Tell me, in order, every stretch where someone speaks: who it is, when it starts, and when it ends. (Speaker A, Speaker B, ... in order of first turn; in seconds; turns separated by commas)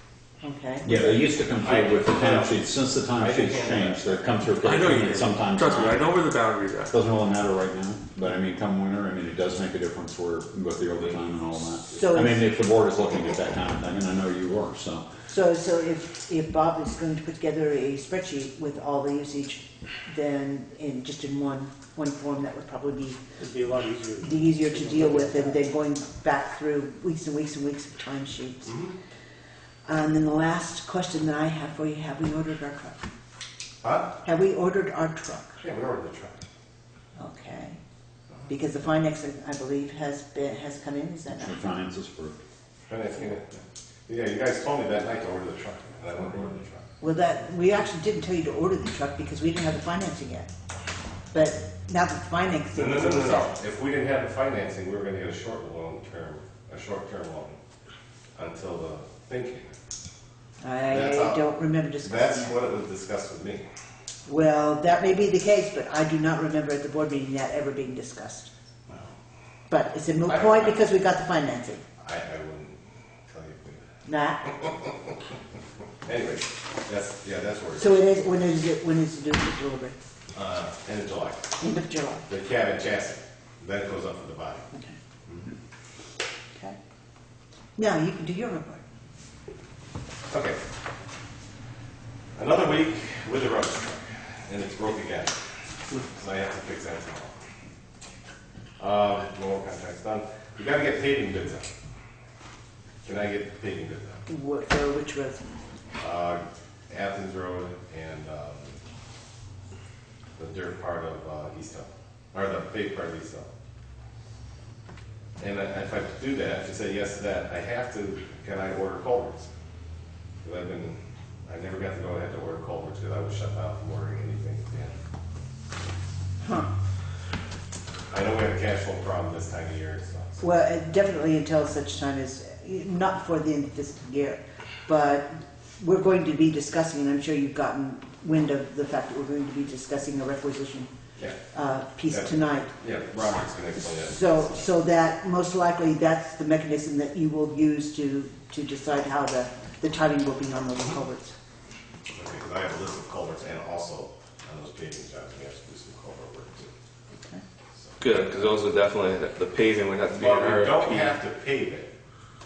Speaker A: 0.4-0.9, Speaker B: 0.8-6.2, Speaker C: 1.6-4.2, Speaker D: 4.6-7.0, Speaker B: 6.9-15.1, Speaker A: 11.9-12.4, Speaker A: 15.3-23.2, Speaker E: 23.4-25.6, Speaker A: 24.2-28.7, Speaker C: 28.6-28.9, Speaker A: 29.9-33.1, Speaker C: 33.8-34.1, Speaker A: 34.2-35.6, Speaker C: 35.6-36.4, Speaker A: 37.1-37.8, Speaker A: 38.5-41.5, Speaker B: 41.3-42.4, Speaker C: 42.9-46.8, Speaker A: 47.0-50.5, Speaker A: 51.3-53.5, Speaker C: 52.7-57.6, Speaker C: 58.4-59.7, Speaker A: 60.6-62.5, Speaker C: 60.9-61.5, Speaker C: 62.0-63.7, Speaker A: 64.2-68.5, Speaker C: 68.9-69.1, Speaker A: 69.7-71.8, Speaker C: 70.2-70.8, Speaker C: 72.0-73.9, Speaker A: 74.0-74.5, Speaker C: 74.4-75.2, Speaker C: 76.0-78.1, Speaker A: 77.8-80.0, Speaker C: 80.3-81.5, Speaker A: 81.6-82.2, Speaker C: 82.3-84.7, Speaker A: 87.8-88.8, Speaker C: 90.3-90.6, Speaker C: 92.3-95.4, Speaker C: 95.9-97.3, Speaker C: 98.8-101.7, Speaker C: 103.0-104.2, Speaker A: 104.3-105.6, Speaker C: 106.0-108.8, Speaker C: 110.4-113.5, Speaker C: 115.4-119.5, Speaker C: 120.4-125.0, Speaker C: 128.1-130.4, Speaker A: 130.4-140.9, Speaker A: 141.5-142.7, Speaker C: 142.1-144.5, Speaker A: 143.8-151.3, Speaker C: 152.1-156.7, Speaker C: 157.8-158.5, Speaker D: 158.0-161.1, Speaker C: 160.0-161.9